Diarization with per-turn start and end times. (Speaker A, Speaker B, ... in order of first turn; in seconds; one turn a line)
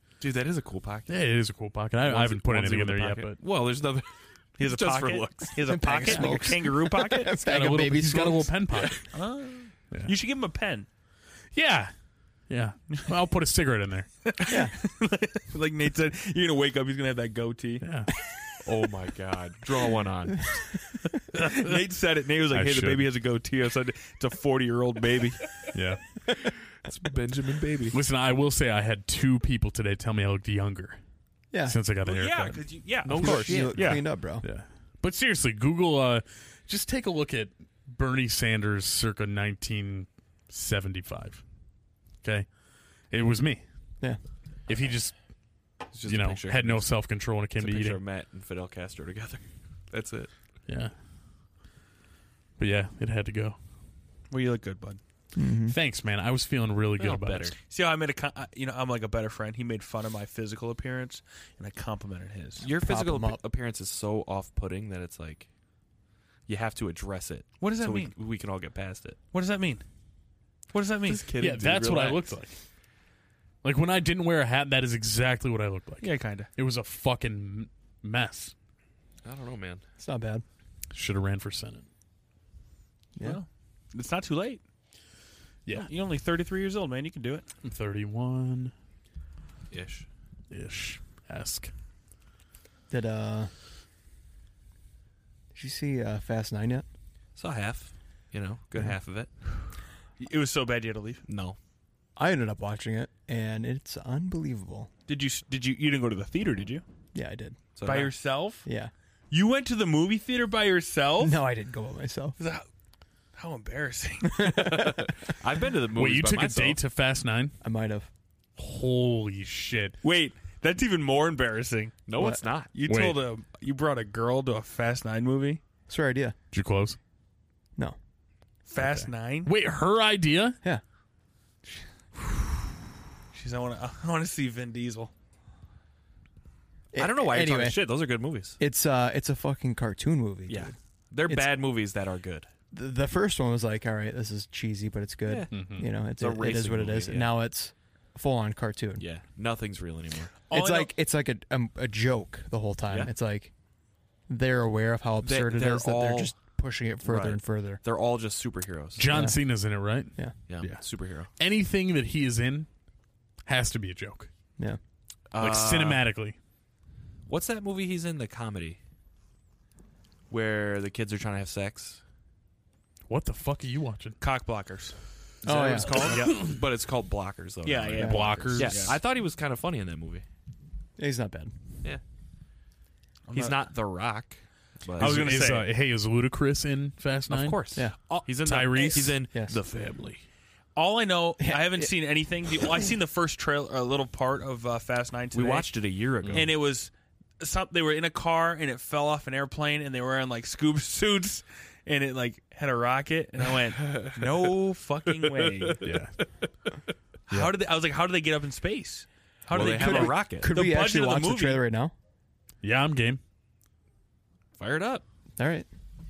Speaker A: 0.2-1.1
Speaker B: 1.1-3.4
Speaker A: 2.0-4.1
Speaker A: 4.6-6.4
Speaker C: 4.6-7.3
Speaker D: 5.6-8.8
Speaker B: 7.4-9.1
Speaker C: 9.1-10.9
Speaker B: 11.5-11.9
Speaker B: 12.5-14.1
Speaker C: 14.2-17.8
Speaker D: 14.4-14.7
Speaker B: 17.8-18.1
Speaker A: 18.6-20.5
Speaker C: 21.3-25.5
Speaker B: 22.5-23.1
Speaker B: 25.7-26.0
Speaker A: 26.8-28.0
Speaker B: 27.9-31.0
Speaker D: 31.5-31.8
Speaker B: 31.6-32.6
Speaker C: 32.0-34.0
Speaker A: 33.0-34.0
Speaker D: 33.1-34.4
Speaker B: 34.4-41.4
Speaker B: 43.1-43.6
Speaker B: 44.7-45.1
Speaker A: 45.9-46.9
Speaker B: 46.0-48.0
Speaker A: 47.6-50.3
Speaker B: 50.7-50.9
Speaker B: 52.6-53.6
Speaker C: 54.3-55.0
Speaker D: 55.3-55.8
Speaker B: 55.7-57.5
Speaker A: 57.0-57.6
Speaker C: 57.7-62.6
Speaker D: 62.6-63.4
Speaker A: 62.6-65.5
Speaker A: 66.5-69.2
Speaker C: 67.6-68.1
Speaker C: 69.3-69.8
Speaker C: 70.7-71.2
Speaker A: 71.0-72.3
Speaker B: 71.4-72.5
Speaker B: 73.6-78.5
Speaker C: 76.0-76.5
Speaker A: 79.2-79.8
Speaker D: 80.0-80.4
Speaker B: 80.9-81.8
Speaker D: 83.2-83.4
Speaker C: 83.2-84.6
Speaker C: 85.7-87.5
Speaker B: 87.6-88.7
Speaker A: 89.7-90.0
Speaker B: 90.5-91.7
Speaker D: 92.9-93.5
Speaker D: 95.5-96.8
Speaker A: 97.3-99.3
Speaker C: 100.2-101.2
Speaker A: 101.3-101.6
Speaker D: 102.2-104.9
Speaker C: 105.1-106.8
Speaker D: 107.1-107.6
Speaker A: 107.8-108.1
Speaker C: 107.8-108.6
Speaker D: 108.6-108.9
Speaker C: 109.3-111.4
Speaker D: 111.2-112.3
Speaker C: 112.4-112.7
Speaker C: 113.3-114.9
Speaker D: 114.4-115.1
Speaker A: 114.5-116.8
Speaker B: 116.0-117.5
Speaker D: 117.6-118.1
Speaker B: 118.6-120.0
Speaker C: 120.0-122.0
Speaker A: 122.1-122.7
Speaker D: 122.2-122.4
Speaker C: 122.7-125.6
Speaker B: 122.8-123.2
Speaker D: 125.9-126.3
Speaker B: 126.5-127.0
Speaker C: 128.7-129.5
Speaker B: 128.8-130.6
Speaker C: 133.3-135.1
Speaker D: 136.9-137.8
Speaker A: 136.9-138.6
Speaker D: 138.6-140.7
Speaker A: 140.5-142.5
Speaker D: 141.2-141.6
Speaker D: 142.7-149.1
Speaker A: 145.2-147.4
Speaker B: 145.5-145.9
Speaker A: 149.0-150.4
Speaker C: 150.5-150.9
Speaker D: 150.5-153.5
Speaker D: 154.3-157.8
Speaker A: 155.2-156.3
Speaker A: 157.0-159.1
Speaker B: 158.9-160.8
Speaker D: 159.1-159.4
Speaker A: 160.5-161.3
Speaker B: 161.4-162.7
Speaker B: 163.4-164.3
Speaker A: 165.3-166.0
Speaker B: 165.4-166.3
Speaker A: 167.3-168.8
Speaker A: 170.3-172.0
Speaker B: 173.1-174.2
Speaker C: 174.2-174.9
Speaker A: 175.4-180.2
Speaker D: 175.4-176.4
Speaker C: 177.6-179.0
Speaker D: 178.0-178.2
Speaker B: 178.0-178.9
Speaker D: 181.0-181.5
Speaker C: 183.3-183.7
Speaker A: 183.3-185.4
Speaker C: 184.9-185.7
Speaker B: 185.0-187.6
Speaker A: 187.3-189.6
Speaker D: 187.7-188.1
Speaker B: 188.4-190.2
Speaker D: 189.3-189.6
Speaker C: 190.7-195.7
Speaker D: 191.4-191.9
Speaker A: 195.3-196.5
Speaker B: 196.2-196.5
Speaker C: 196.3-205.8
Speaker A: 203.8-204.3
Speaker A: 205.4-205.8
Speaker B: 205.8-206.1
Speaker C: 207.3-211.6
Speaker A: 209.5-210.5
Speaker D: 209.5-211.9
Speaker B: 212.6-213.2
Speaker A: 214.6-215.0
Speaker D: 215.4-215.7